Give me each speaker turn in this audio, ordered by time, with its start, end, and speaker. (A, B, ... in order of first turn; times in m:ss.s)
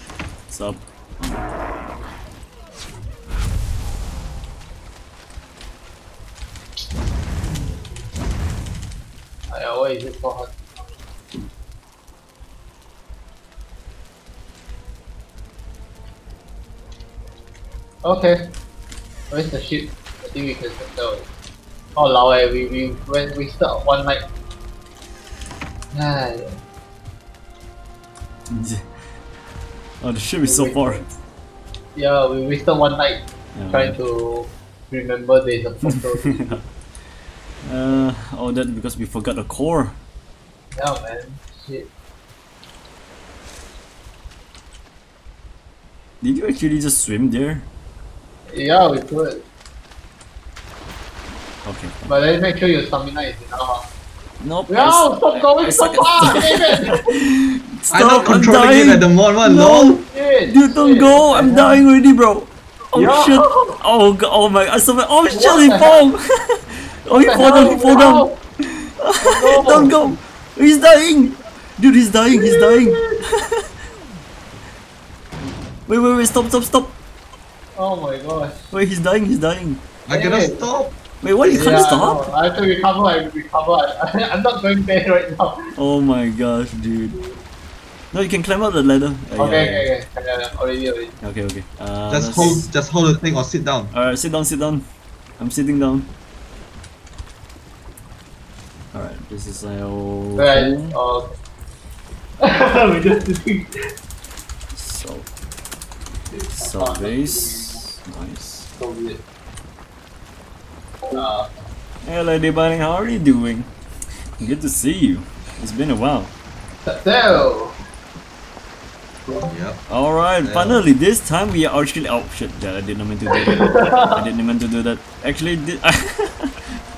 0:00.5-0:01.4 A
0:09.5-0:10.8 B
0:18.0-0:18.5 B
0:19.3-0:21.3 B
0:22.0-0:24.2 B
0:25.9-0:26.6 B
0:28.5-0:28.8 A
0:30.0-0:31.1 A
0:30.5-0:31.0 B
0:32.0-0:36.6 B
0:33.5-0:34.0 A
0:35.9-0:36.6 A
0:37.6-0:40.0 A
0:40.7-0:41.9 B
0:46.2-0:47.7 A
0:48.5-0:49.4 B
0:51.6-0:52.0 A
0:52.1-0:53.9 B
0:54.4-0:59.9 A
0:54.7-0:57.2 B
0:57.9-1:00.0 C
0:59.5-1:01.8 B
1:00.4-1:13.7 A
1:02.9-1:03.8 B
1:05.3-1:06.0 B
1:07.1-1:08.4 B
1:09.2-1:10.0 B
1:12.3-1:13.2 B
1:15.9-1:16.9 A
1:17.8-1:18.7 B
1:18.7-1:19.8 A
1:20.0-1:20.9 C
1:20.1-1:20.6 B
1:21.2-1:22.3 A
1:21.4-1:25.7 B
1:25.7-1:27.2 A
1:28.1-1:29.9 A
1:29.4-1:31.1 B
1:31.2-1:32.7 A
1:32.1-1:33.9 C
1:33.9-1:34.8 A
1:35.4-1:36.1 A
1:38.9-1:40.9 A
1:40.4-1:41.4 B
1:42.4-1:43.7 B
1:44.7-1:45.3 A
1:46.3-1:47.8 B
1:46.5-1:48.7 A
1:48.8-1:49.2 B
1:51.1-1:51.5 B
1:52.0-1:53.7 A
1:54.4-1:56.3 A
1:56.8-1:57.8 B
1:59.4-1:59.8 C
1:59.9-2:06.8 A
2:00.4-2:00.8 C
2:03.3-2:04.2 B